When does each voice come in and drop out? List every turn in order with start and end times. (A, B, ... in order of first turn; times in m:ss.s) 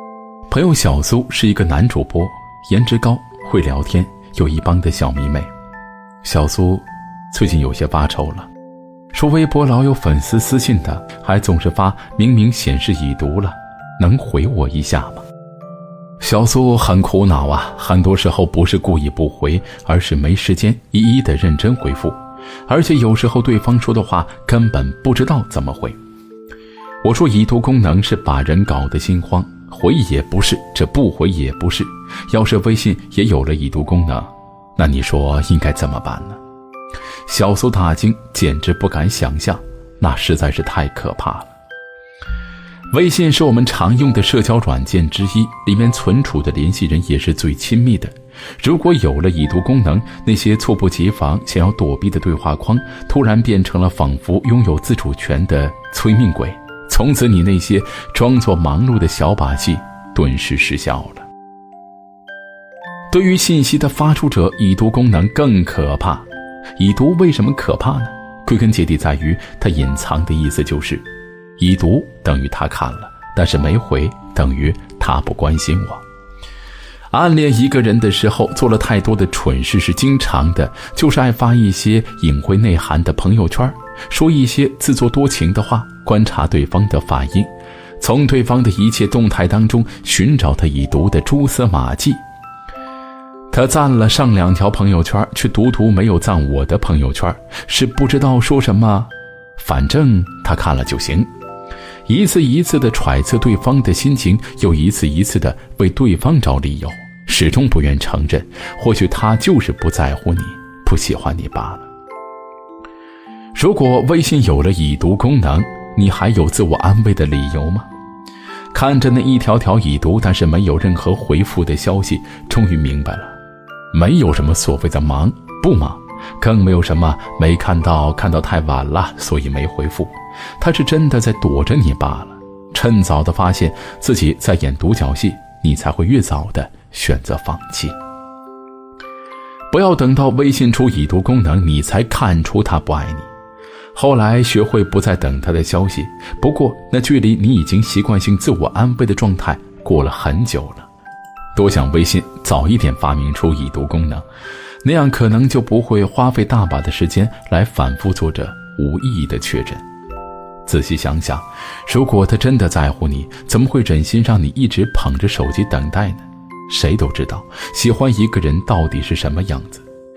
0:00.5-0:05.5 A
0:06.2-0:08.5 A
0:09.1-0:15.2 A
0:16.2-0:26.0 A
0:27.0-0:36.4 A
0:37.3-0:41.5 A
0:42.9-1:01.2 A
1:03.1-1:11.0 A
1:11.6-1:16.0 A
1:17.1-1:32.2 A
1:33.5-1:41.3 A
1:42.1-1:51.9 A
1:53.5-1:57.9 A
1:58.7-2:03.4 A
2:03.9-2:18.0 A
2:19.7-2:23.3 A
2:23.9-2:30.9 A
2:31.5-2:34.2 A
2:34.8-2:39.8 A
2:40.6-2:49.8 A